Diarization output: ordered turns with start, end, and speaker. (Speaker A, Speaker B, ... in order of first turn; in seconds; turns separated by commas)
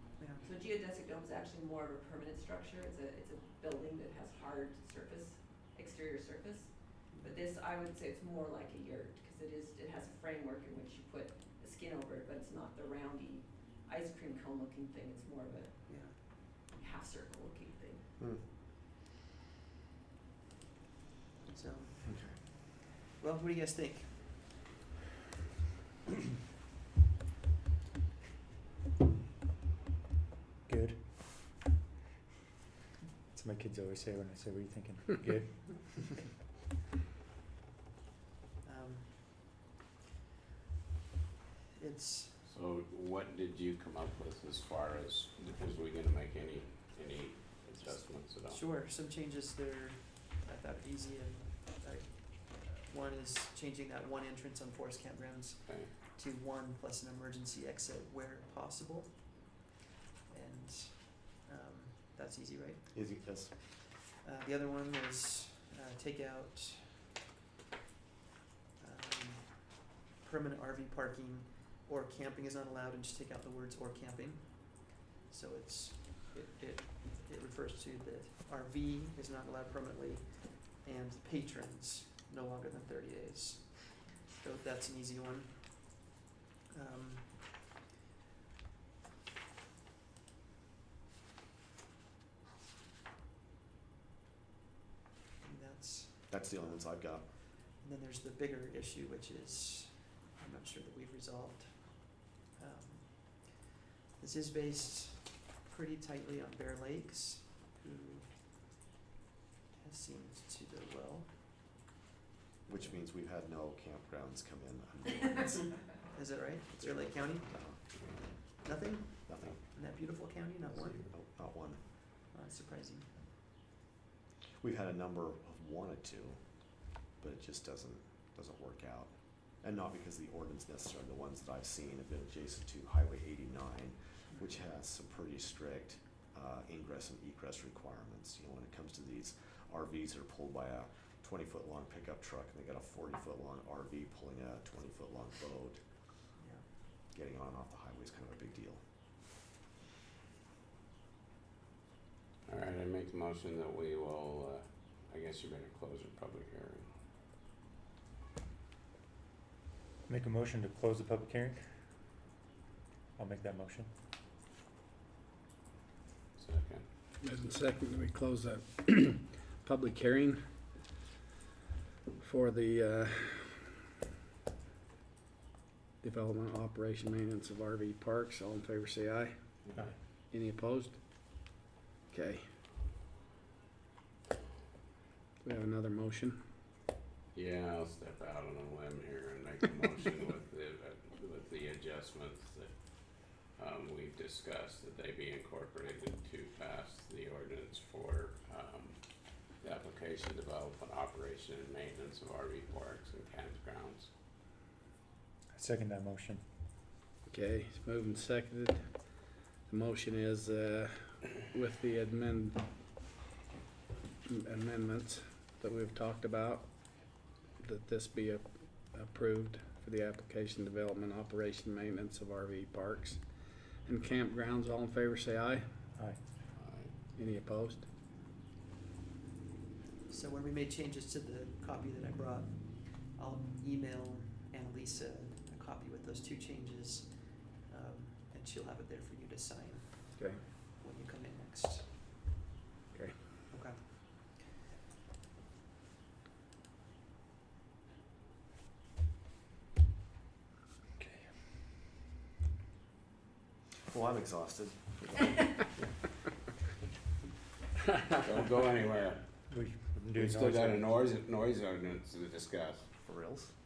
Speaker A: 0.2-0.5, Speaker B: 0.4-18.0, Speaker A: 7.1-7.4, Speaker A: 15.9-16.2, Speaker C: 18.2-18.4, Speaker A: 21.4-24.6, Speaker C: 22.0-22.4, Speaker D: 30.6-31.2, Speaker D: 33.3-36.2, Speaker A: 38.6-39.6, Speaker A: 41.8-42.4, Speaker E: 42.5-48.6, Speaker A: 47.8-59.6, Speaker E: 55.6-55.9, Speaker A: 60.3-67.0, Speaker C: 62.9-63.5, Speaker A: 68.8-86.1, Speaker A: 86.7-87.7, Speaker A: 95.4-108.7, Speaker C: 96.3-97.3, Speaker A: 109.8-111.7, Speaker C: 112.7-116.1, Speaker A: 116.1-121.1, Speaker C: 116.7-118.2, Speaker C: 119.2-119.6, Speaker C: 120.8-121.9, Speaker A: 122.3-123.2, Speaker C: 124.6-126.4, Speaker C: 127.0-145.8, Speaker A: 146.4-146.7, Speaker C: 147.1-148.8, Speaker E: 152.4-156.9, Speaker D: 160.1-161.6, Speaker D: 163.2-163.9, Speaker E: 166.4-166.8, Speaker F: 167.2-170.4, Speaker F: 172.2-173.7, Speaker F: 176.0-179.7, Speaker F: 180.3-182.4, Speaker F: 185.4-186.4, Speaker E: 187.3-192.7, Speaker E: 193.2-204.1, Speaker D: 205.5-206.4, Speaker F: 207.3-212.6, Speaker F: 214.2-225.6, Speaker D: 225.9-226.2, Speaker E: 226.6-226.9, Speaker F: 227.1-227.8, Speaker A: 230.1-242.0, Speaker F: 240.1-240.4, Speaker A: 243.5-244.4, Speaker D: 251.0-251.3, Speaker C: 253.9-255.7, Speaker E: 258.1-259.2, Speaker D: 259.5-260.9, Speaker E: 260.1-262.9, Speaker C: 263.0-263.5